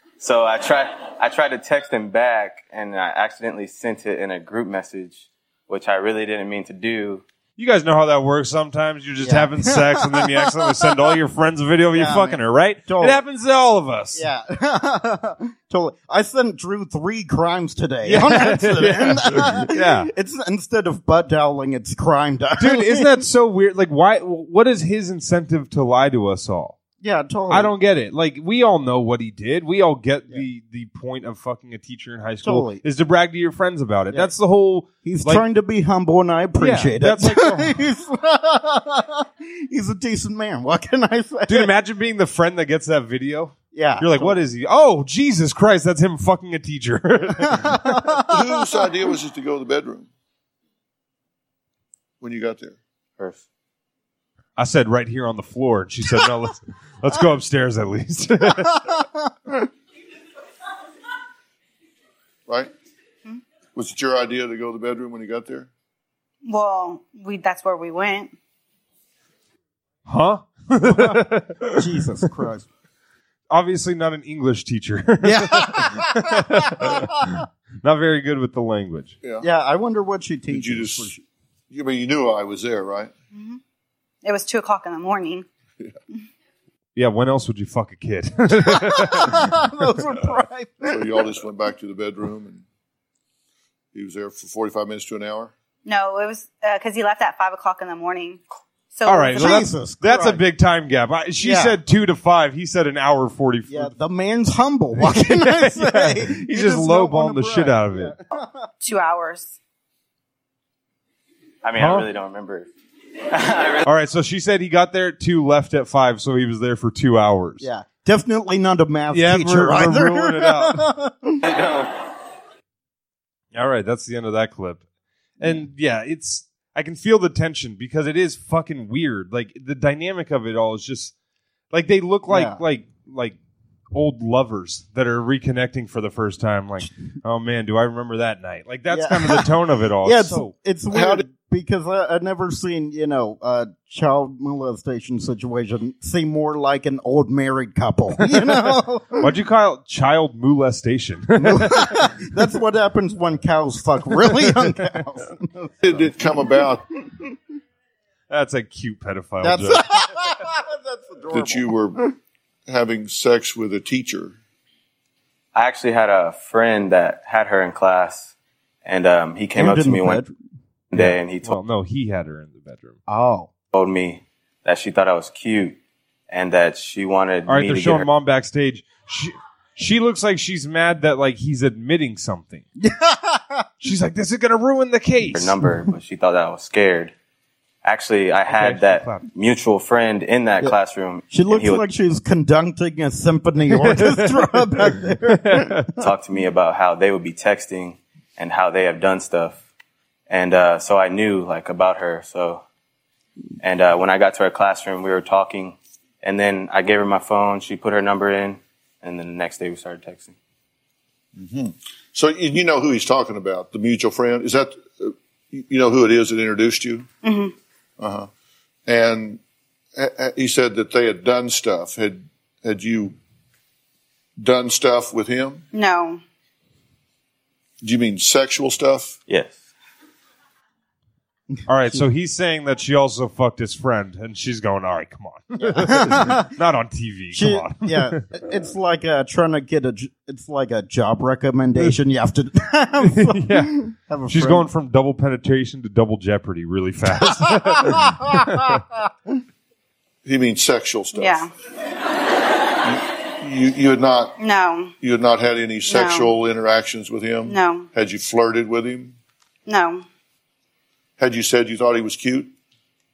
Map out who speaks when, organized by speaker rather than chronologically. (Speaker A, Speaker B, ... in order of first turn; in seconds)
Speaker A: 0.2-7.2, 53.2-53.4, 111.6-112.7, 113.3-113.8, 121.4-122.0, 165.5-168.3, 168.8-170.2, 170.9-171.6, 173.7-175.8, 176.3-178.1, 185.3-187.1, 187.8-191.8, 195.9-199.7, 200.3-202.6, 203.6-210.3, 229.3-229.5
Speaker B: 7.6-14.2, 18.0-20.1, 22.6-26.8, 27.5-35.4, 36.6-37.7, 41.5-48.0, 54.6-59.0, 70.0-71.8, 73.5-79.1, 87.0-89.5, 99.0-103.9, 105.0-108.1, 111.8-112.1, 113.8-117.7, 119.1-120.9, 123.5-124.8, 125.4-131.1, 131.7-133.3, 133.9-140.5, 149.2-152.1, 158.3-159.8, 170.9-173.0, 177.4-182.6, 183.8-185.6, 188.5-189.3, 193.8-194.7, 195.3-195.9, 231.7-238.2, 243.0-248.8
Speaker C: 9.2-11.2, 11.9-13.2, 14.1-23.2, 27.0-27.7, 32.4-32.8, 35.0-41.7, 43.7-44.4, 47.5-48.6, 70.9-71.2, 71.7-72.7, 75.2-77.3, 79.4-81.2, 88.6-91.3, 99.3-100.4, 101.4-101.8, 103.7-108.5, 117.6-121.4, 132.3-132.6, 138.9-149.3, 151.4-156.1, 159.4-162.1, 169.5-170.3, 173.1-173.5, 182.8-183.7, 191.3-196.0, 235.6-236.5, 237.3-244.7, 247.3-248.8
Speaker D: 48.2-50.1, 52.2-52.8, 62.5-62.7, 63.7-65.7, 80.5-81.1, 81.7-83.1, 90.9-92.6, 93.9-95.5, 140.9-141.2, 155.8-156.9, 161.3-162.1, 162.7-164.3, 211.3-217.1, 218.0-218.3, 218.8-219.4, 219.9-223.2, 224.4-225.7, 227.8-229.2, 250.2-251.4, 252.8-254.4, 255.0-259.1, 261.2-262.5
Speaker E: 66.4-68.3, 83.3-83.6, 84.2-85.5, 95.8-99.7, 108.8-109.5, 217.2-217.5, 225.7-226.2, 251.1-251.5, 254.4-254.9, 255.8-256.3, 257.4-257.9, 259.6-260.0